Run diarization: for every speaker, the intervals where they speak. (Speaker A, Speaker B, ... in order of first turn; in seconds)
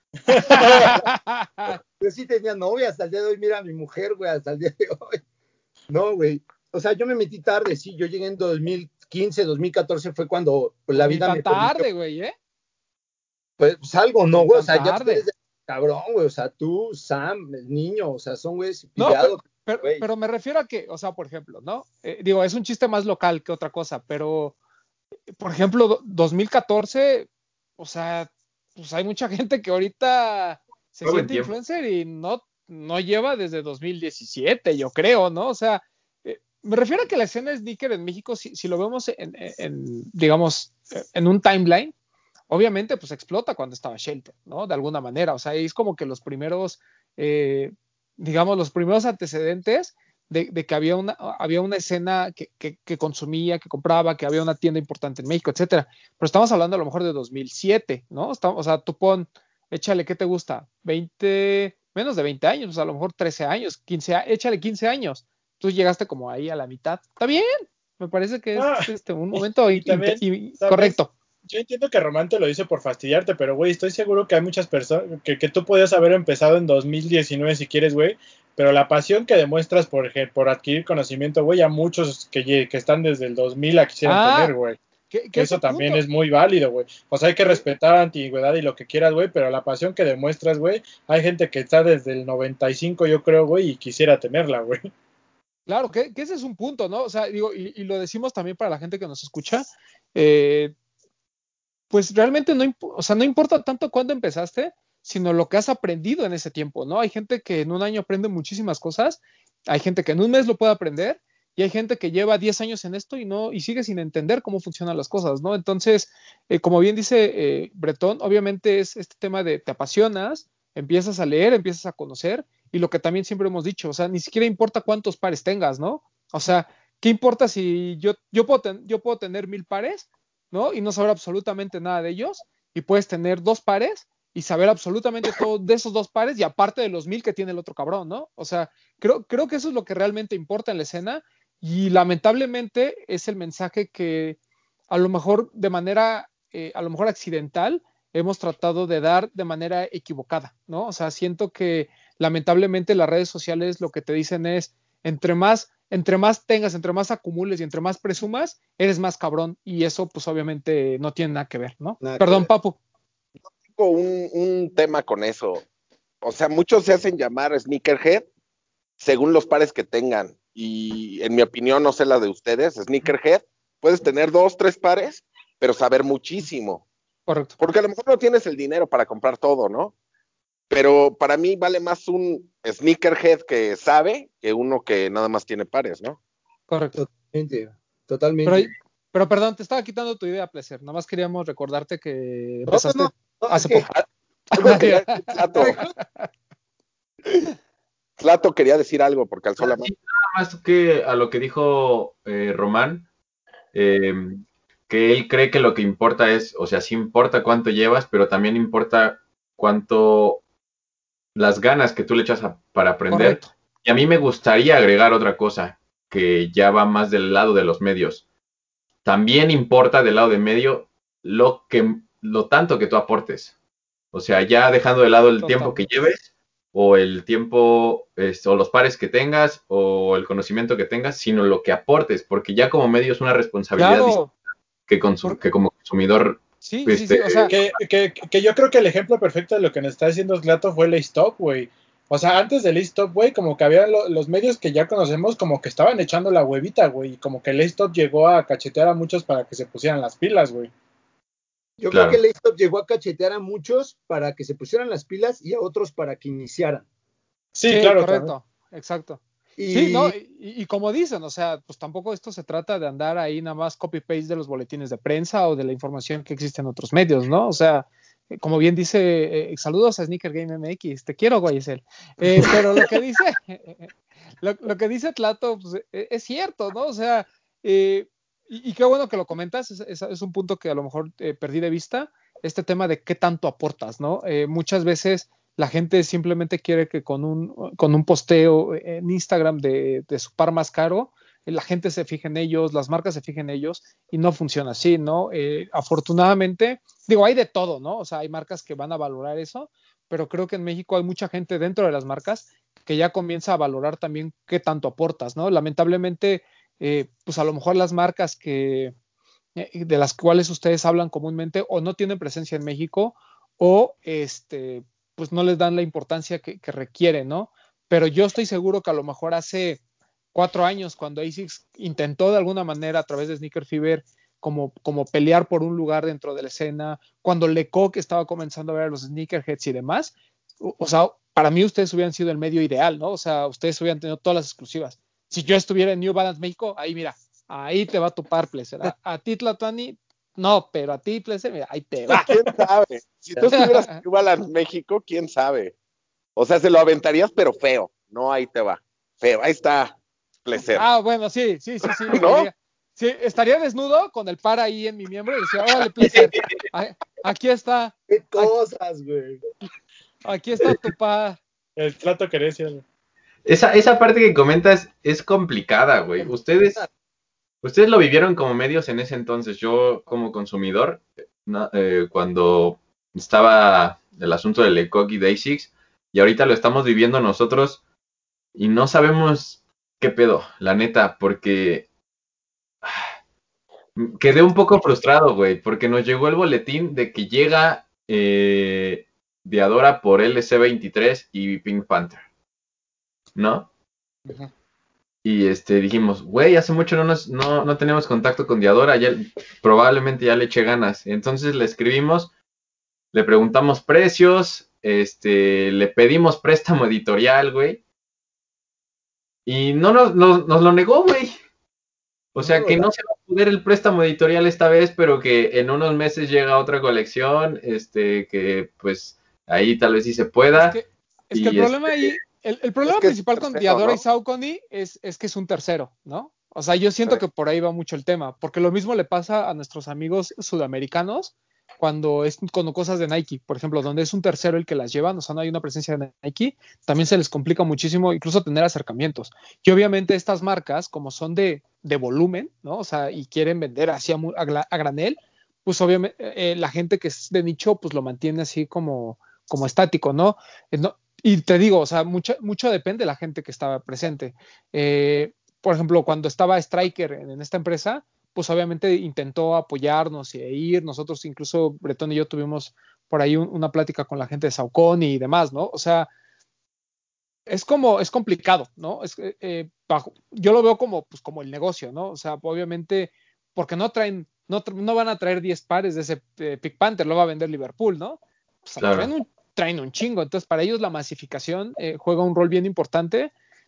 Speaker A: 0.3-1.0, 68.5-71.0, 71.5-84.8, 85.3-94.9, 237.5-250.7, 257.6-258.3, 361.8-362.8
Speaker B: 0.4-1.8, 10.9-12.3, 14.3-15.2, 19.0-24.6, 25.3-41.9, 42.5-71.1, 84.0-84.5, 85.1-86.0, 95.7-100.7, 101.9-144.4, 144.9-162.8, 177.3-177.6, 186.7-187.0, 188.4-193.9, 194.5-196.3, 213.1-213.5, 225.4-225.8, 233.8-234.3, 236.6-237.5, 257.7-259.2, 259.7-273.9, 274.4-308.9, 309.6-319.8, 320.3-342.3, 343.4-344.0, 350.6-358.5, 360.2-361.4, 420.5-466.1, 467.5-483.3
Speaker C: 2.0-5.2, 5.9-11.9, 13.6-20.1, 162.0-162.5, 186.9-188.7, 192.7-193.9, 251.8-256.9, 259.6-260.1, 358.1-359.4, 366.3-366.9, 412.4-412.9
Speaker D: 31.1-31.5, 199.6-203.1, 203.7-210.4, 211.3-218.2, 219.0-223.5, 224.1-234.3, 234.9-237.7, 251.9-252.2, 356.2-356.5, 363.4-366.8, 367.6-377.8, 378.6-381.9, 382.8-383.1, 383.9-392.2, 393.4-393.7, 395.2-402.3, 403.1-407.8, 409.4-411.3, 412.4-420.8, 421.3-422.2, 478.8-479.1
Speaker E: 163.5-165.6, 166.2-168.3, 169.0-176.8, 177.6-179.9, 180.7-186.2, 193.9-195.9, 198.2-199.9, 342.1-345.7, 346.4-350.9, 351.9-352.5, 422.9-424.0